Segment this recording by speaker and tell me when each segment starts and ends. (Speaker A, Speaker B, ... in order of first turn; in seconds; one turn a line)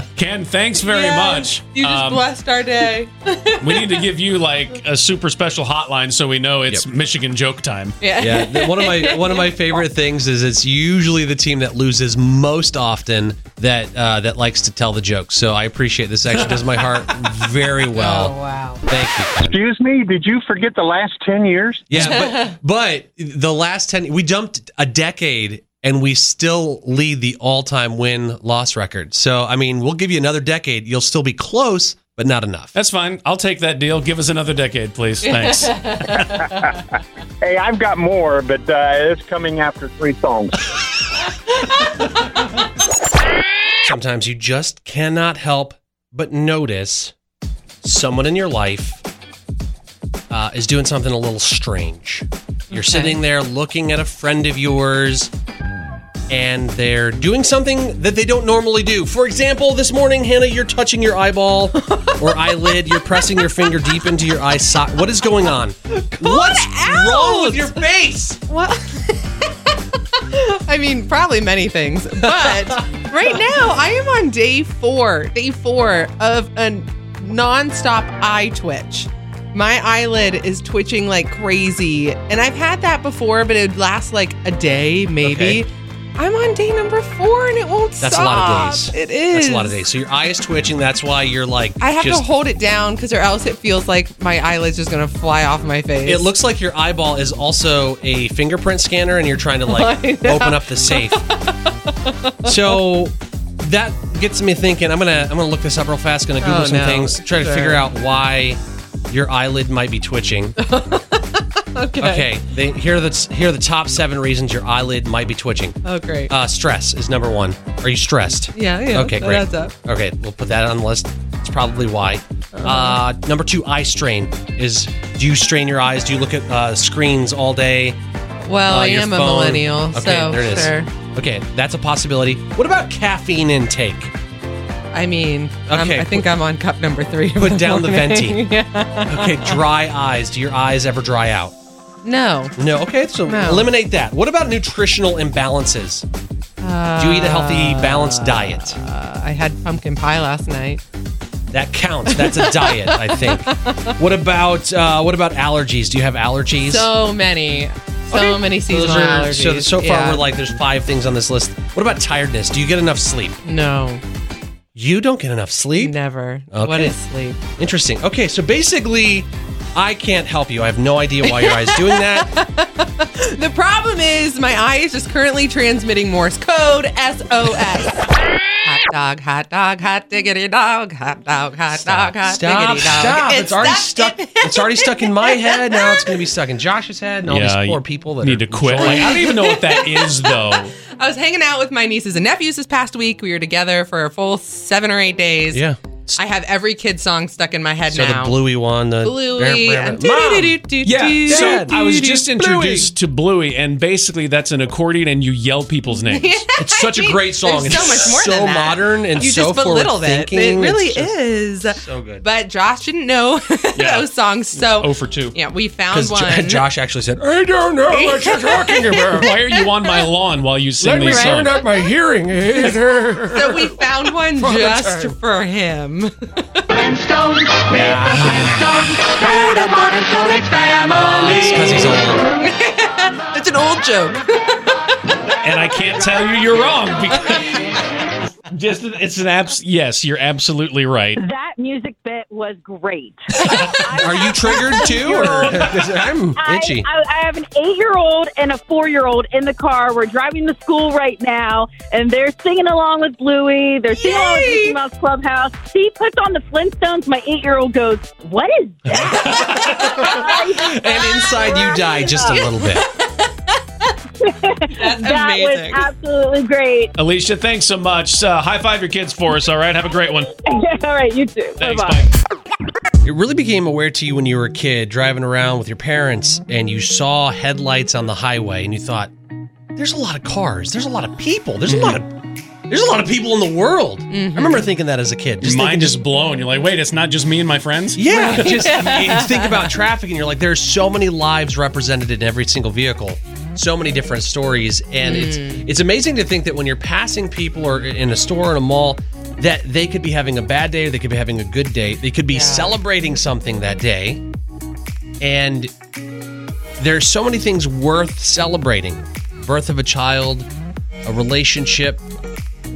Speaker A: 0.2-2.3
Speaker B: 0.8-4.1
Speaker A: 3.6-8.0
Speaker B: 8.0-9.6
Speaker C: 8.2-19.6
Speaker B: 17.9-18.9
Speaker D: 19.4-22.0
Speaker C: 21.9-32.7
Speaker B: 22.0-22.5
Speaker A: 32.7-36.5
Speaker B: 35.2-36.7
Speaker D: 37.4-40.8
Speaker C: 43.8-47.1
Speaker C: 47.8-49.0
Speaker C: 50.3-55.3
Speaker B: 52.7-53.2
Speaker C: 56.3-68.4
Speaker B: 61.8-63.5
Speaker B: 65.9-67.8
Speaker B: 68.5-89.8
Speaker C: 85.2-85.6
Speaker C: 88.0-92.3
Speaker B: 91.8-96.3
Speaker C: 96.0-101.2
Speaker B: 99.7-102.8
Speaker C: 102.4-110.6
Speaker B: 106.4-107.9
Speaker B: 110.6-112.3
Speaker C: 112.0-128.0
Speaker B: 115.8-116.3
Speaker B: 118.5-119.7
Speaker B: 122.5-123.0
Speaker B: 128.5-130.9
Speaker C: 128.7-134.2
Speaker B: 134.9-139.6
Speaker C: 135.7-136.4
Speaker C: 137.4-138.5
Speaker C: 139.1-141.6
Speaker B: 142.0-142.6
Speaker C: 142.6-146.1
Speaker B: 143.3-143.7
Speaker B: 146.6-150.8
Speaker C: 147.0-148.8
Speaker C: 151.5-156.9
Speaker B: 152.1-153.9
Speaker B: 156.6-160.3
Speaker C: 158.1-163.4
Speaker B: 163.4-164.0
Speaker C: 164.8-166.0
Speaker B: 165.8-167.4
Speaker C: 166.5-167.0
Speaker C: 167.6-172.4
Speaker B: 171.2-178.0
Speaker B: 178.6-186.1
Speaker C: 181.7-189.3
Speaker A: 187.3-190.8
Speaker B: 188.8-195.6
Speaker C: 195.5-196.2
Speaker B: 196.2-198.4
Speaker C: 197.9-200.6
Speaker B: 199.0-202.2
Speaker A: 200.8-208.1
Speaker C: 201.2-202.9
Speaker B: 206.0-216.7
Speaker C: 206.6-212.3
Speaker A: 213.8-215.4
Speaker C: 215.9-219.3
Speaker B: 217.9-219.2
Speaker A: 218.9-221.6
Speaker C: 220.8-225.2
Speaker B: 223.3-226.6
Speaker C: 227.7-232.2
Speaker A: 227.9-228.6
Speaker B: 232.4-234.6
Speaker A: 235.4-237.6
Speaker A: 238.5-241.2
Speaker E: 241.2-245.6
Speaker A: 243.6-243.8
Speaker C: 243.9-246.9
Speaker B: 244.7-245.2
Speaker A: 245.1-245.8
Speaker E: 246.4-262.5
Speaker B: 253.9-254.8
Speaker C: 258.9-262.9
Speaker A: 258.9-260.2
Speaker E: 264.2-266.9
Speaker B: 264.7-265.9
Speaker A: 267.0-270.3
Speaker E: 270.4-272.1
Speaker A: 271.6-272.1
Speaker C: 273.0-279.1
Speaker C: 279.8-286.0
Speaker B: 284.1-284.7
Speaker A: 285.4-288.7
Speaker C: 288.0-304.2
Speaker B: 288.1-289.6
Speaker B: 295.0-295.7
Speaker B: 302.3-302.8
Speaker C: 305.2-305.7
Speaker C: 306.8-310.5
Speaker C: 311.0-312.0